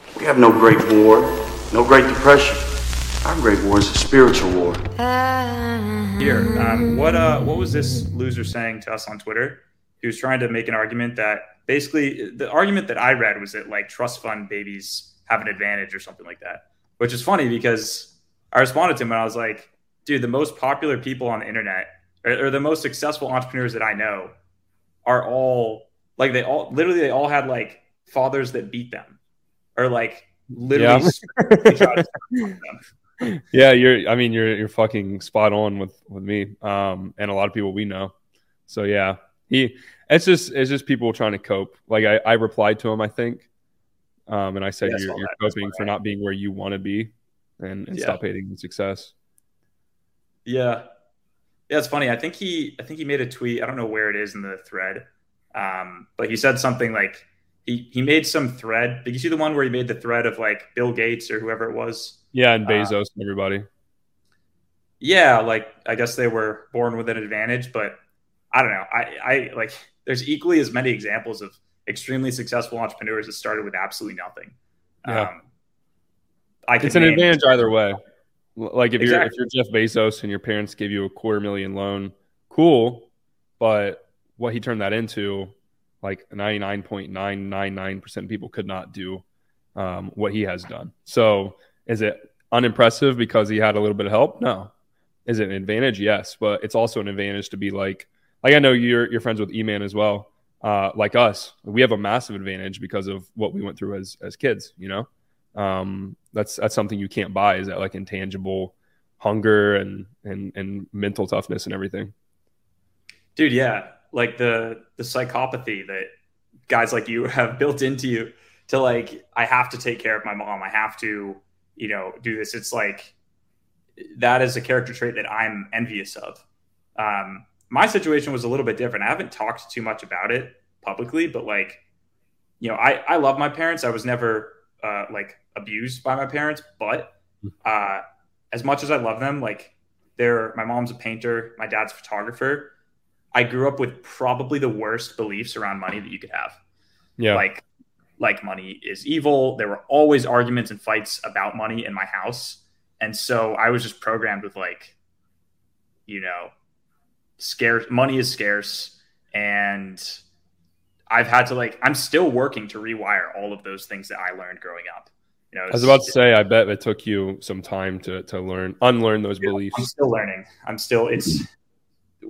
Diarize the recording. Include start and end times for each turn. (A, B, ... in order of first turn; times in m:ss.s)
0:00.2-0:02.6 A
0:03.2-0:04.8 A
0:06.2-0:24.3 B
0:25.0-0:29.2 B
0:29.8-0:32.8 B
0:30.7-0:32.5 C
0:33.3-0:38.1 C
0:38.7-0:43.5 C
0:44.3-0:49.1 C
0:44.8-0:45.9 B
0:47.9-0:48.2 B
0:50.4-0:50.8 B
0:51.7-1:02.9 B
1:02.3-1:03.6 C
1:05.0-1:08.0 B
1:08.5-1:15.4 B
1:15.1-1:15.3 C
1:16.7-1:17.4 B
1:16.8-1:18.0 C
1:18.6-1:23.1 C
1:19.0-1:19.3 B
1:23.6-1:29.2 C
1:29.8-1:34.7 C
1:35.3-1:52.1 C
1:53.4-1:56.1 B
1:56.7-2:03.1 B
2:04.0-2:06.4 B
2:07.0-2:11.8 B
2:12.6-2:22.7 B
2:23.3-2:26.6 B
2:27.2-2:27.4 C
2:27.3-2:27.6 B
2:28.2-2:34.9 B
2:36.1-2:36.5 B
2:37.4-2:40.2 B
2:41.1-2:46.1 B
2:45.7-2:49.9 C
2:49.4-2:51.4 B